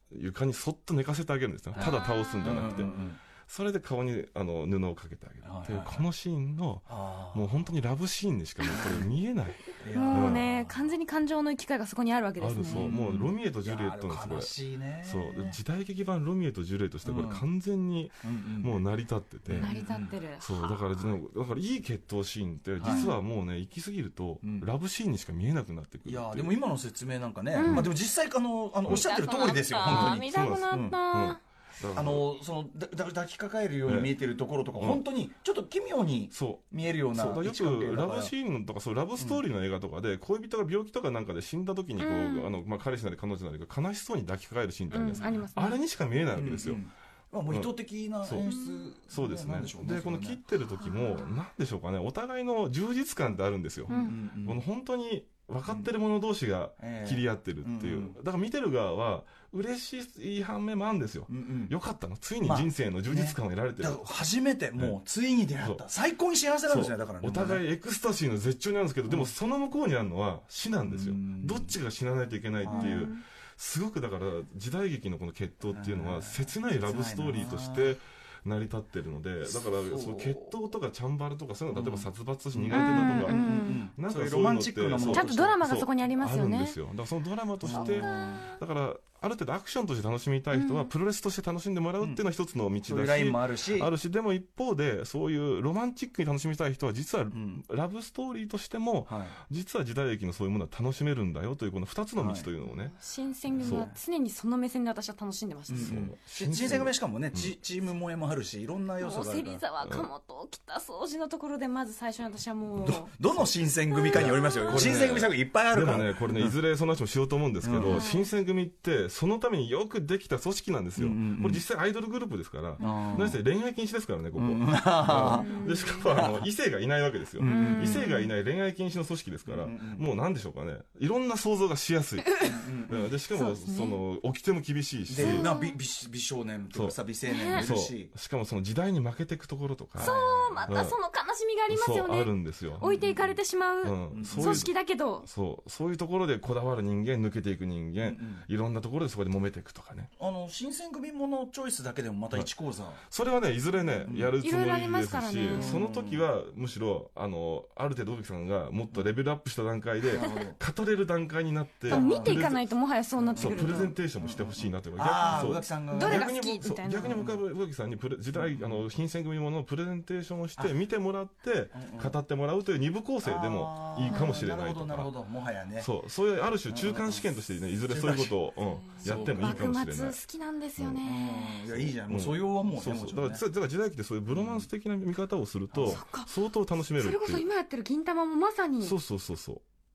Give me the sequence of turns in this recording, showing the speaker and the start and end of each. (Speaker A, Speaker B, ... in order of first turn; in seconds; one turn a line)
Speaker A: 0.1-2.9
Speaker B: 1.7-3.2
Speaker C: 1.8-2.9
Speaker A: 3.5-10.5
Speaker B: 5.4-6.0
Speaker B: 6.9-7.7
Speaker B: 8.7-9.1
Speaker B: 9.8-10.8
Speaker C: 9.9-12.9
Speaker A: 12.4-14.5
Speaker B: 12.7-15.6
Speaker A: 15.0-19.7
Speaker B: 17.0-17.4
Speaker B: 18.2-18.8
Speaker B: 19.5-20.1
Speaker C: 19.5-20.9
Speaker A: 20.4-26.5
Speaker B: 22.8-23.1
Speaker C: 22.8-23.1
Speaker B: 26.0-30.9
Speaker C: 27.5-27.9
Speaker A: 27.6-27.9
Speaker C: 28.9-31.4
Speaker A: 29.9-32.2
Speaker B: 31.9-38.3
Speaker A: 33.9-34.1
Speaker A: 34.8-35.0
Speaker A: 36.3-46.8
Speaker C: 42.0-42.5
Speaker C: 44.9-45.8
Speaker B: 46.3-50.4
Speaker A: 48.2-48.5
Speaker C: 48.5-48.8
Speaker A: 49.1-64.0
Speaker C: 50.8-51.2
Speaker C: 53.9-54.1
Speaker B: 53.9-54.6
Speaker B: 56.8-58.2
Speaker B: 61.3-61.7
Speaker B: 62.4-67.6
Speaker A: 66.7-102.9
Speaker B: 70.8-71.8
Speaker B: 72.6-73.1
Speaker C: 72.7-73.2
Speaker B: 75.7-78.0
Speaker B: 79.8-80.5
Speaker B: 81.7-85.6
Speaker C: 82.7-83.8
Speaker C: 85.0-86.8
Speaker B: 87.6-88.4
Speaker C: 87.7-88.4
Speaker C: 90.5-90.9
Speaker B: 92.8-93.9
Speaker B: 97.3-97.6
Speaker B: 99.1-99.3
Speaker B: 102.2-102.5
Speaker C: 102.7-106.0
Speaker B: 103.5-104.0
Speaker A: 103.6-103.9
Speaker B: 105.7-109.6
Speaker A: 105.8-107.5
Speaker C: 109.0-113.1
Speaker A: 109.8-110.1
Speaker B: 112.8-116.6
Speaker C: 113.9-114.8
Speaker A: 114.1-135.5
Speaker B: 117.6-118.0
Speaker C: 117.8-118.3
Speaker B: 121.0-121.6
Speaker C: 122.8-123.3
Speaker B: 122.8-123.4
Speaker B: 124.3-126.4
Speaker C: 125.2-126.1
Speaker B: 127.4-128.0
Speaker C: 127.5-128.3
Speaker B: 129.4-130.1
Speaker B: 132.4-133.1
Speaker C: 133.3-134.0
Speaker B: 135.1-138.1
Speaker C: 135.2-135.8
Speaker C: 137.3-137.7
Speaker A: 137.6-140.2
Speaker B: 139.9-140.8
Speaker C: 140.0-145.2
Speaker A: 140.7-141.0
Speaker A: 141.7-142.9
Speaker B: 142.8-143.3
Speaker A: 143.8-150.1
Speaker B: 144.1-144.6
Speaker B: 148.0-148.4
Speaker B: 150.2-153.0
Speaker A: 153.1-162.7
Speaker C: 154.0-155.8
Speaker B: 154.1-154.3
Speaker B: 155.5-156.2
Speaker B: 160.1-160.6
Speaker C: 161.9-163.9
Speaker B: 161.9-162.5
Speaker B: 163.2-166.3
Speaker A: 163.3-175.1
Speaker C: 165.3-167.2
Speaker B: 168.3-168.8
Speaker B: 171.7-172.2
Speaker B: 173.2-175.9
Speaker A: 175.8-180.2
Speaker B: 176.7-177.2
Speaker B: 177.9-178.3
Speaker C: 179.0-181.7
Speaker B: 179.0-179.7
Speaker B: 181.0-183.4
Speaker A: 181.7-187.5
Speaker B: 184.3-184.7
Speaker B: 185.7-186.0
Speaker C: 185.9-186.3
Speaker C: 187.0-188.9
Speaker A: 188.8-189.6